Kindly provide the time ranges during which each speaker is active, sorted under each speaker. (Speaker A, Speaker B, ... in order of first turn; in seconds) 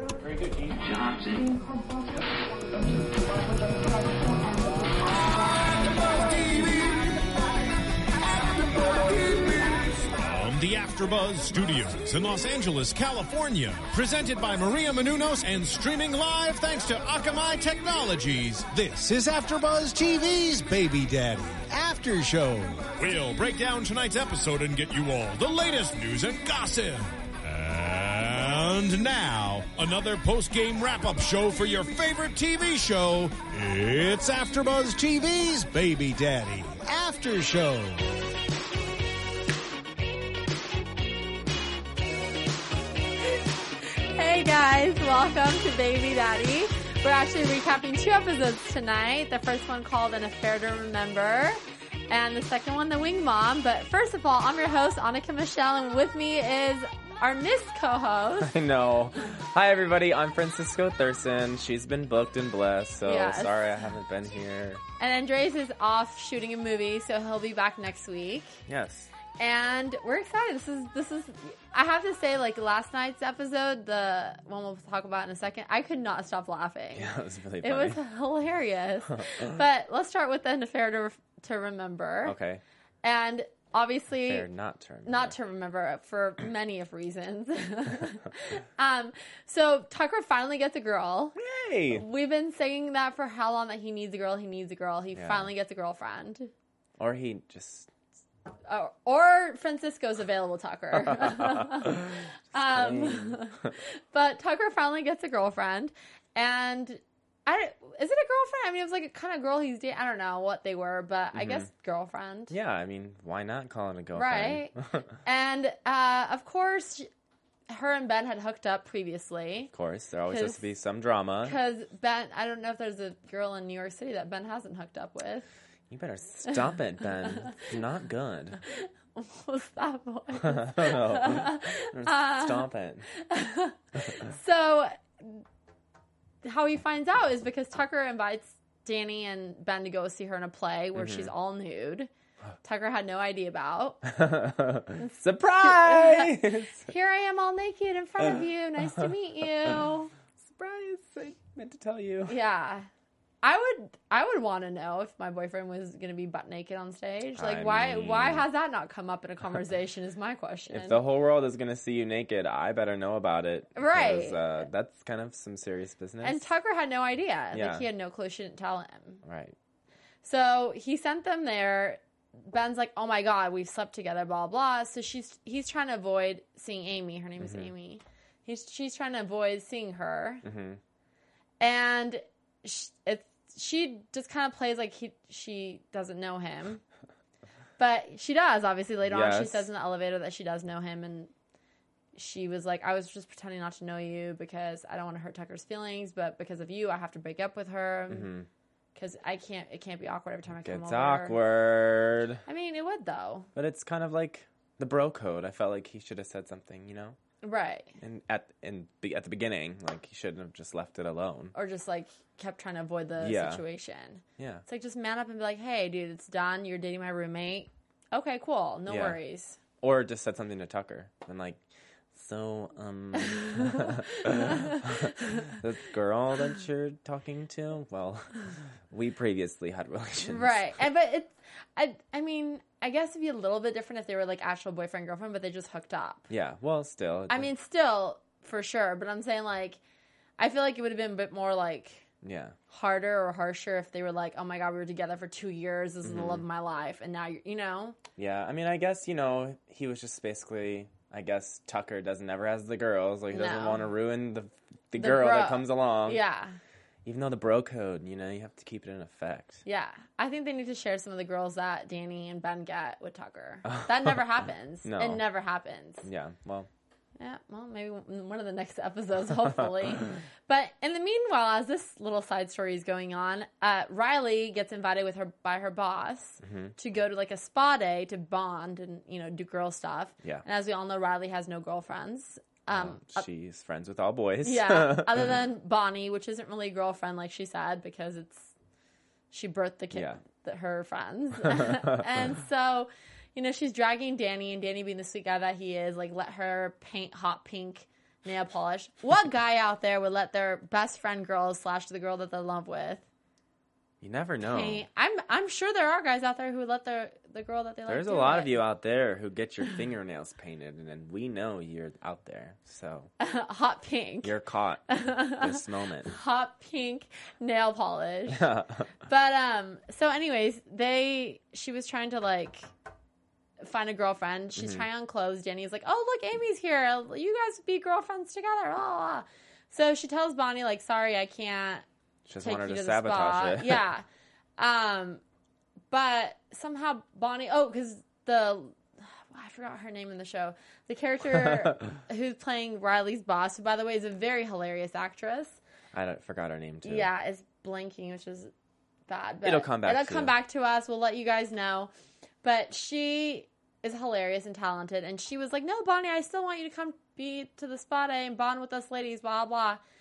Speaker A: 6.2-7.0, 8.8-38.0
Speaker B: 44.1-58.6, 63.0-63.5, 65.0-68.6, 69.4-77.1, 77.6-82.3, 83.0-84.5, 85.1-91.4, 91.9-96.5, 98.7-112.5, 114.2-117.1, 117.7-119.7, 120.3-120.6, 121.4-125.5, 127.2-127.6, 128.7-135.4, 136.4-142.1, 142.6-144.1, 145.0-150.1, 152.3-152.9, 153.4-161.0, 163.8-164.6, 166.2-169.2, 170.2-180.5, 181.6-186.8, 187.8-191.3, 192.2-198.3, 198.9-201.4, 202.5-203.5, 207.4-208.0, 211.5-219.6, 223.2-225.6, 230.2-236.3, 237.3-239.8, 240.4-242.1, 242.7-248.0, 253.3-253.8, 255.0-256.6, 259.6-266.1, 267.2-283.2, 284.4-288.5, 289.3-303.0, 304.4-308.6, 313.2-314.3, 314.9-322.7, 323.6-331.9, 332.4-334.1, 334.6-335.2, 335.9-345.6, 346.8-348.5, 349.1-351.9, 352.4-359.8
Speaker C: 58.4-64.8, 68.7-69.1, 77.0-78.0, 79.2-79.5, 82.2-82.6, 84.3-85.3, 91.4-92.0, 95.2-95.5, 97.0-97.9, 101.1-103.7, 111.3-111.7, 112.5-115.0, 119.7-121.6, 125.9-128.6, 130.4-133.1, 140.9-141.3, 144.1-146.9, 150.4-152.3, 157.4-158.5, 160.7-166.4, 167.5-167.9, 169.2-169.6, 177.4-177.7, 180.4-180.8, 189.1-189.7, 198.1-198.5, 200.6-202.4, 203.6-207.2, 208.0-211.5, 213.2-213.6, 214.4-214.6, 218.9-219.2, 219.8-221.6, 222.1-230.8, 236.3-237.5, 242.2-242.6, 246.0-246.4, 248.2-256.2, 257.1-259.6, 263.7-264.2, 264.8-265.2, 266.0-266.7, 276.4-276.7, 282.7-285.4, 289.9-290.2, 291.5-292.0, 304.0-304.8, 307.9-313.1, 314.2-314.8, 315.4-316.1, 318.3-318.9, 324.6-324.8, 332.3-333.8, 345.9-347.1, 349.4-350.3